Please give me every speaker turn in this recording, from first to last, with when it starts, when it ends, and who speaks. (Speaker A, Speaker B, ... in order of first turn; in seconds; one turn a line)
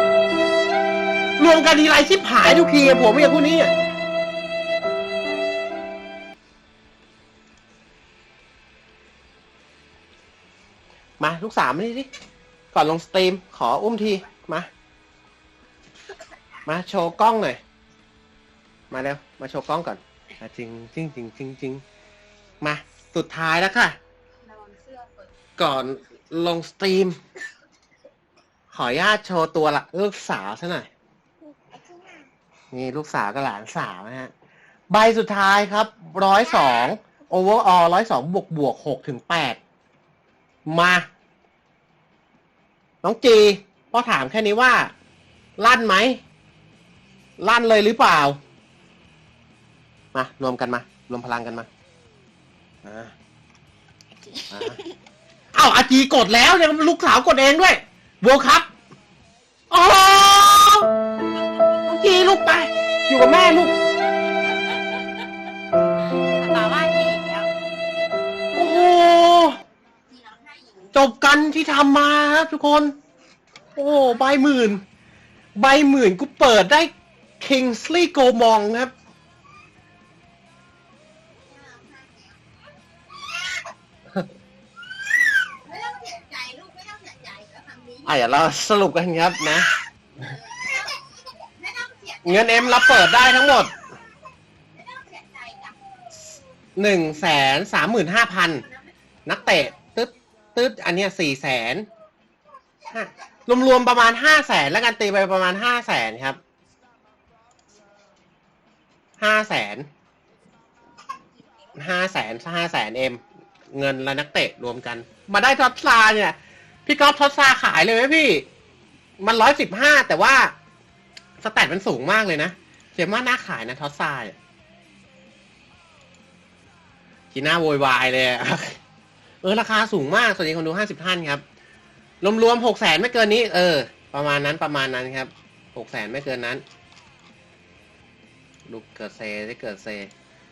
Speaker A: 1.4-3.7
Speaker A: 11.2-12.1
Speaker A: 12.7-14.7
Speaker A: 16.6-17.6
Speaker A: 18.9-21.8
Speaker A: 22.6-24.0
Speaker B: 24.4-25.3
Speaker A: 25.6-27.2
Speaker A: 28.7-30.9
Speaker B: 31.6-32.3
Speaker A: 32.7-34.3
Speaker A: 34.9-39.6
Speaker A: 40.7-41.0
Speaker A: 43.0-44.9
Speaker A: 45.6-46.2
Speaker A: 47.4-48.4
Speaker A: 50.1-51.7
Speaker A: 52.8-53.1
Speaker A: 54.5-54.8
Speaker A: 55.5-58.7
Speaker A: 59.7-60.9
Speaker A: 61.7-63.7
Speaker B: 64.7-65.0
Speaker B: 66.1-67.5
Speaker A: 68.5-69.6
Speaker B: 70.1-70.9
Speaker A: 70.9-72.9
Speaker A: 73.7-74.8
Speaker A: 75.5-78.9
Speaker B: 81.5-82.3
Speaker B: 83.3-83.6
Speaker B: 85.4-88.1
Speaker A: 88.0-89.7
Speaker B: 90.4-92.3
Speaker A: 92.2-93.7
Speaker B: 94.7-95.8
Speaker A: 96.8-98.7
Speaker A: 99.2-101.9
Speaker A: 102.9-106.4
Speaker A: 109.2-109.9
Speaker A: 111.7-118.5
Speaker A: 119.2-120.5
Speaker A: 121.4-124.3
Speaker A: 127.3-128.8
Speaker A: 129.4-131.4
Speaker A: 132.2-136.6
Speaker A: 138.7-140.1